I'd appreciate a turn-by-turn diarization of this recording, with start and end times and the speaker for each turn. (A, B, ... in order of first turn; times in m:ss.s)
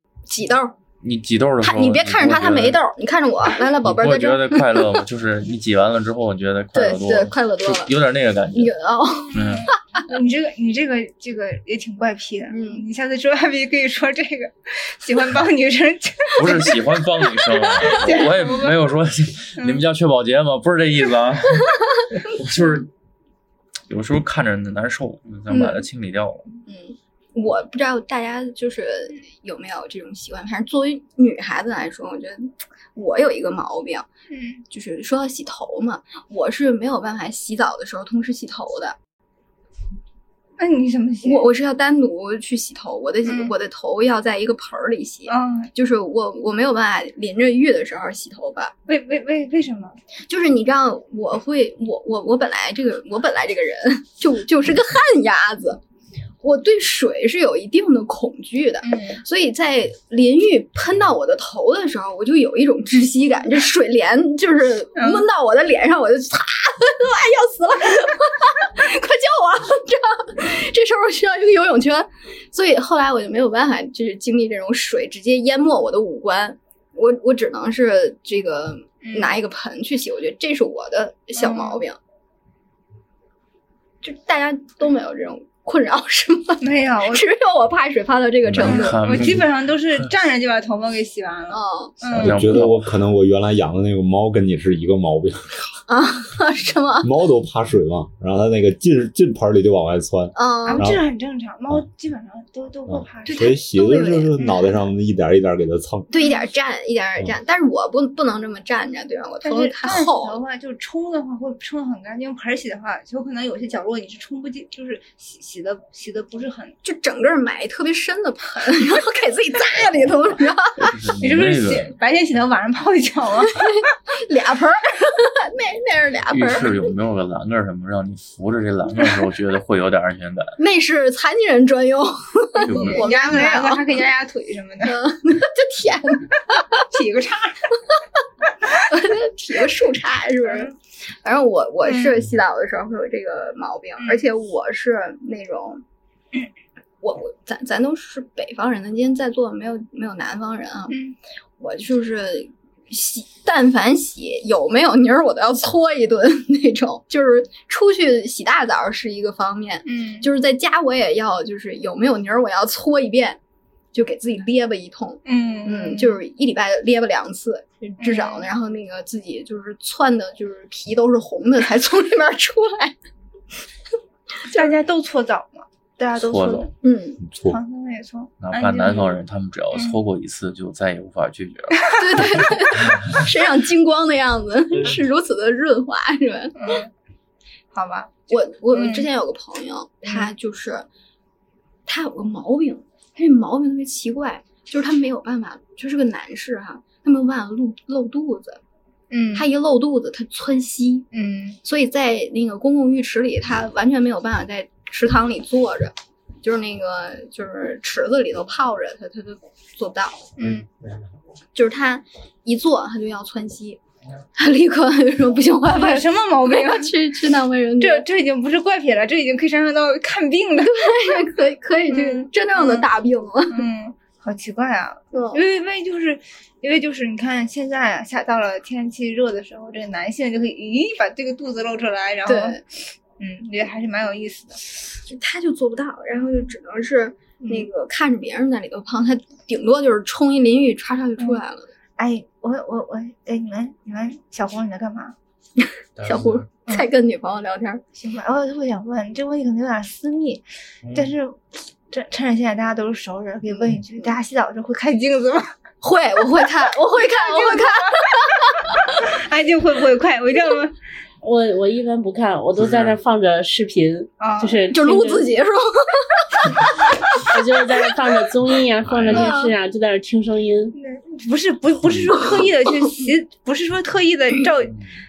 0:00.3-0:00.8 A
0:01.0-0:02.8 B
0:01.6-0:04.9 A
0:03.8-0:08.8 B
0:06.7-0:07.9 A
0:08.5-0:09.4 A
0:09.3-0:18.9 C
0:09.3-0:09.7 B
0:12.5-0:12.9 A
0:16.4-0:22.9 B
0:23.9-0:26.6 B
0:25.5-0:25.8 A
0:26.7-0:34.1 A
0:34.3-0:34.6 C
0:34.7-0:39.0 A
0:40.6-0:41.5 C
0:41.2-0:48.7 A
0:43.3-0:43.5 C
0:45.3-0:45.7 C
0:48.9-0:50.0 C
0:50.3-0:55.8 A
0:56.4-1:22.0 A
0:58.8-0:59.2 C
1:05.0-1:05.3 C
1:19.0-1:19.4 C
1:21.4-1:21.8 C
1:24.0-1:29.3 A
1:26.6-1:27.3 C
1:28.5-1:30.1 B
1:28.6-1:32.6 C
1:31.5-1:32.0 A
1:32.1-1:32.9 B
1:32.1-1:35.5 D
1:35.9-1:37.1 A
1:37.0-1:41.0 D
1:40.4-1:40.9 A
1:40.7-1:43.5 C
1:42.9-1:46.1 D
1:43.2-1:44.5 A
1:46.1-1:50.4 A
1:49.4-1:56.8 C
1:56.8-2:01.0 A
2:00.8-2:01.9 B
2:01.2-2:03.7 C
2:03.5-2:06.9 A
2:06.3-2:10.6 B
2:10.6-2:13.9 A
2:12.6-2:15.0 C
2:12.6-2:13.1 B
2:14.8-2:16.8 A
2:16.9-2:17.6 C
2:18.8-2:20.7 A
2:20.4-2:20.7 C
2:21.2-2:25.8 A
2:21.8-2:22.2 C
2:24.0-2:24.3 C
2:27.0-2:31.0 A
2:30.9-2:31.2 C
2:31.6-2:43.4 A
2:39.9-2:40.3 C
2:43.9-2:53.0 A
2:45.3-2:46.2 C
2:48.0-2:48.5 C
2:54.5-2:56.7 C
2:56.2-2:56.7 B
2:56.8-2:57.2 A
2:57.2-2:57.6 D
2:57.5-2:59.2 C
2:58.4-3:03.2 B
3:02.0-3:06.8 A
3:06.6-3:06.9 C
3:07.7-3:08.1 C
3:08.3-3:10.9 A
3:08.7-3:09.1 C
3:11.9-3:18.6 A
3:19.1-3:19.5 C
3:19.3-3:21.1 A
3:21.1-3:21.6 C
3:21.6-3:30.3 A
3:30.4-3:30.7 C
3:31.6-3:33.8 A
3:34.4-3:38.1 A
3:35.7-3:36.9 C
3:37.8-3:41.2 C
3:40.6-3:43.6 A
3:41.9-3:42.9 C
3:43.5-3:52.6 C
3:45.1-3:45.4 A
3:52.2-3:52.6 A
3:53.2-3:54.6 C
3:55.1-4:01.7 A
3:57.4-3:57.7 C
4:02.0-4:05.2 C
4:06.0-4:06.5 B
4:06.0-4:07.8 A
4:08.0-4:10.4 C
4:10.8-4:11.1 B
4:11.0-4:15.5 C
4:13.5-4:14.2 A
4:15.8-4:18.7 A
4:17.0-4:18.2 C
4:19.1-4:20.7 C
4:21.2-4:25.3 E
4:22.6-4:23.0 B
4:24.2-4:24.6 C
4:24.7-4:26.6 A
4:27.2-4:30.8 E
4:28.8-4:29.3 B
4:29.1-4:29.5 A
4:30.8-4:34.8 C
4:31.9-4:32.3 B